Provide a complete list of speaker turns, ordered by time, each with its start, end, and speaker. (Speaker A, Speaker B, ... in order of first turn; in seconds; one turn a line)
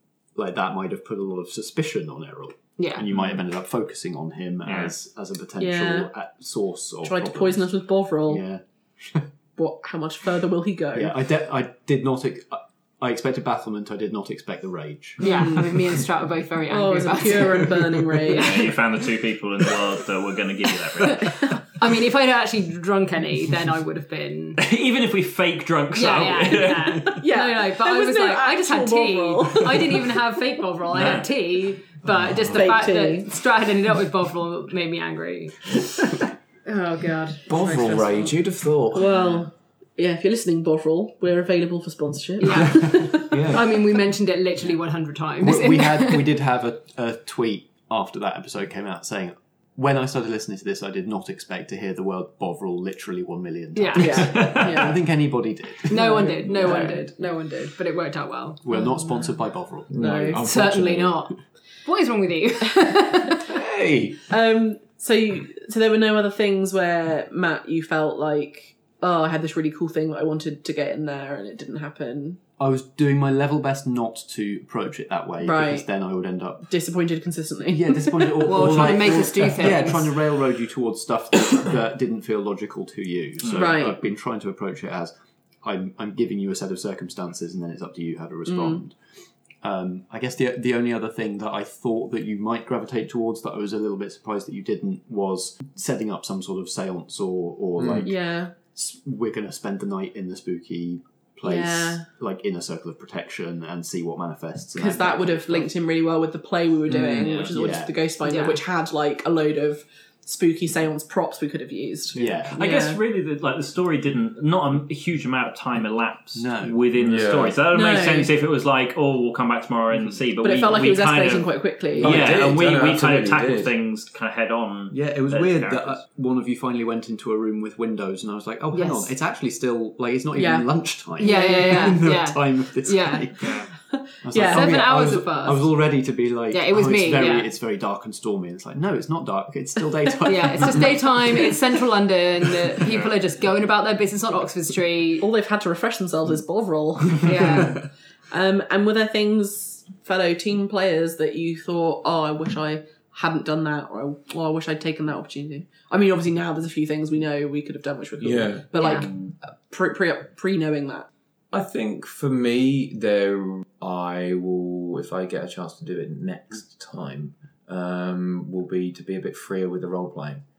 Speaker A: 0.3-7.7
Speaker B: 2.8-3.0
Speaker C: 3.1-3.4
Speaker C: 4.6-4.9
Speaker D: 5.6-6.1
Speaker D: 7.0-8.4
Speaker A: 8.2-9.3
Speaker D: 9.6-11.1
Speaker A: 10.9-16.0
Speaker B: 15.2-18.8
Speaker D: 15.2-15.7
Speaker D: 16.7-18.8
Speaker C: 18.3-21.5
Speaker B: 21.1-24.6
Speaker C: 24.6-27.2
Speaker B: 25.9-38.3
Speaker D: 27.1-30.2
Speaker C: 30.9-31.3
Speaker D: 32.5-33.3
Speaker E: 37.5-39.1
Speaker D: 38.9-43.5
Speaker B: 42.4-46.3
Speaker E: 43.3-43.7
Speaker A: 45.4-57.0
Speaker B: 53.8-54.3
Speaker D: 54.0-55.0
Speaker C: 54.2-54.9
Speaker B: 55.9-58.9
Speaker D: 55.9-57.0
Speaker A: 58.6-60.4
Speaker E: 59.9-61.2
Speaker D: 60.0-60.4
Speaker B: 60.4-63.4
Speaker E: 63.5-64.2
Speaker D: 64.3-72.4
Speaker A: 72.6-76.7
Speaker D: 75.4-75.8
Speaker D: 76.7-79.3
Speaker A: 77.7-85.1
Speaker B: 78.4-80.1
Speaker C: 83.4-83.8
Speaker D: 83.5-84.0
Speaker A: 85.6-89.0
Speaker D: 88.5-88.8
Speaker A: 89.6-105.7
Speaker E: 97.8-98.1
Speaker D: 98.0-98.5
Speaker D: 101.4-102.0
Speaker D: 104.8-113.0
Speaker E: 106.9-107.3
Speaker C: 107.1-107.5
Speaker A: 107.2-107.9
Speaker B: 108.2-108.6
Speaker A: 112.1-112.6
Speaker C: 112.5-126.0
Speaker A: 116.3-116.8
Speaker E: 117.0-117.6
Speaker D: 117.7-118.3
Speaker D: 120.4-122.3
Speaker E: 122.0-123.7
Speaker A: 124.9-133.6
Speaker B: 128.7-129.1
Speaker D: 130.3-130.7
Speaker B: 131.2-133.3
Speaker D: 131.2-131.9
Speaker C: 133.4-133.7
Speaker D: 133.9-134.8
Speaker A: 134.2-141.5
Speaker B: 134.5-135.7
Speaker B: 136.5-137.5
Speaker B: 140.2-145.3
Speaker C: 142.8-143.1
Speaker D: 145.2-161.1
Speaker B: 147.2-147.8
Speaker E: 158.2-158.7
Speaker B: 158.8-159.1
Speaker E: 161.5-170.4